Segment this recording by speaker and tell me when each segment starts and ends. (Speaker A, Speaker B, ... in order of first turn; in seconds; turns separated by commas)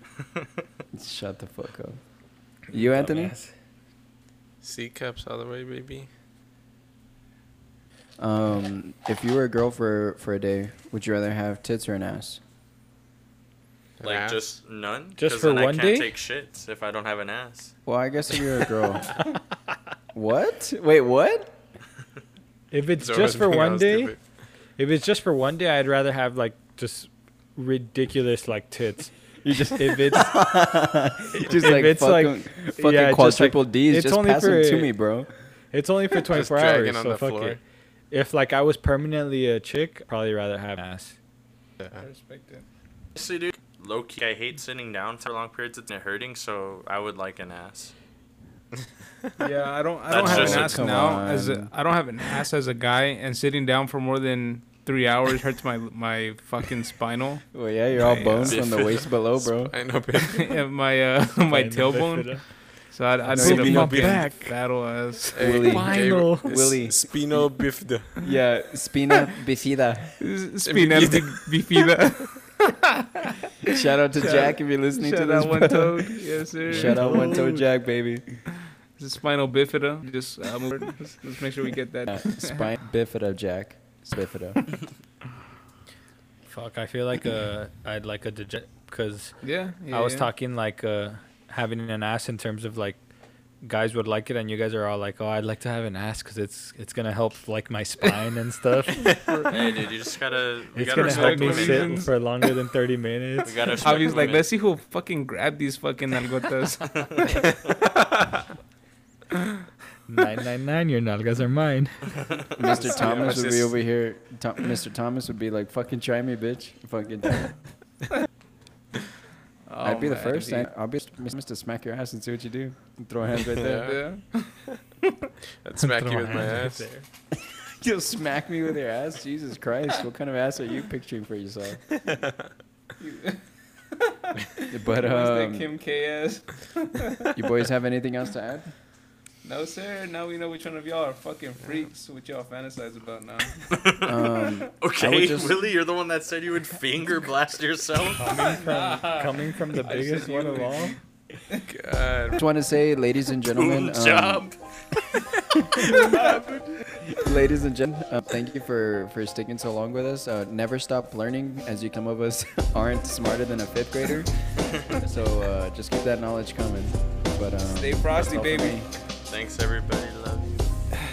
Speaker A: 0.9-2.0, Speaker A: 2.7-3.4, Speaker B: 2.7-3.5, Speaker C: 4.6-6.1, Speaker A: 8.2-12.4, Speaker C: 14.0-14.4, Speaker D: 14.0-17.7, Speaker B: 15.2-16.1, Speaker A: 17.9-19.2, Speaker A: 20.1-21.5, Speaker B: 22.7-24.1, Speaker C: 23.0-24.2, Speaker B: 24.8-29.1, Speaker A: 29.4-35.3, Speaker B: 29.8-30.4, Speaker B: 31.3-34.9, Speaker B: 35.7-37.6, Speaker C: 36.3-37.6, Speaker B: 38.1-41.1, Speaker C: 41.8-42.0, Speaker E: 42.0-42.6, Speaker D: 43.1-47.9, Speaker E: 49.4-58.5, Speaker D: 50.1-50.9, Speaker A: 50.2-51.7, Speaker A: 57.5-59.7, Speaker D: 58.5-59.0, Speaker C: 58.8-60.6, Speaker E: 60.2-65.3, Speaker B: 61.5-62.7, Speaker A: 63.3-64.2, Speaker B: 63.3-64.6, Speaker C: 65.3-68.2, Speaker A: 65.3-67.5, Speaker B: 65.7-66.7, Speaker A: 68.2-70.2, Speaker E: 70.2-72.8, Speaker C: 70.6-71.8, Speaker A: 73.7-76.1, Speaker E: 74.1-77.3, Speaker A: 76.7-78.2, Speaker B: 76.7-77.6, Speaker E: 78.9-82.6, Speaker A: 82.1-84.7, Speaker B: 86.5-93.0, Speaker E: 89.4-90.3, Speaker B: 93.6-99.2, Speaker E: 99.2-99.6, Speaker D: 99.5-102.0, Speaker B: 100.7-103.8, Speaker E: 100.8-102.1, Speaker D: 103.4-104.5, Speaker E: 103.8-107.4, Speaker B: 110.1-112.2, Speaker A: 112.6-117.6, Speaker C: 112.7-113.7, Speaker E: 119.7-120.7, Speaker A: 119.8-123.8, Speaker C: 123.5-124.0, Speaker E: 123.7-124.7, Speaker C: 125.6-126.9, Speaker B: 125.8-127.0, Speaker A: 127.5-131.8, Speaker E: 133.0-137.4, Speaker A: 134.7-135.7, Speaker A: 137.3-138.7, Speaker E: 139.4-143.7, Speaker D: 143.7-144.2, Speaker A: 144.0-145.6, Speaker D: 144.8-148.3, Speaker B: 148.2-151.0, Speaker E: 148.6-151.0, Speaker C: 151.6-152.4, Speaker A: 152.3-154.4, Speaker D: 153.5-154.6, Speaker A: 155.8-156.1, Speaker E: 155.8-156.4, Speaker C: 156.1-156.6, Speaker A: 157.1-164.3, Speaker A: 164.8-168.9, Speaker E: 167.6-168.8, Speaker D: 169.3-170.7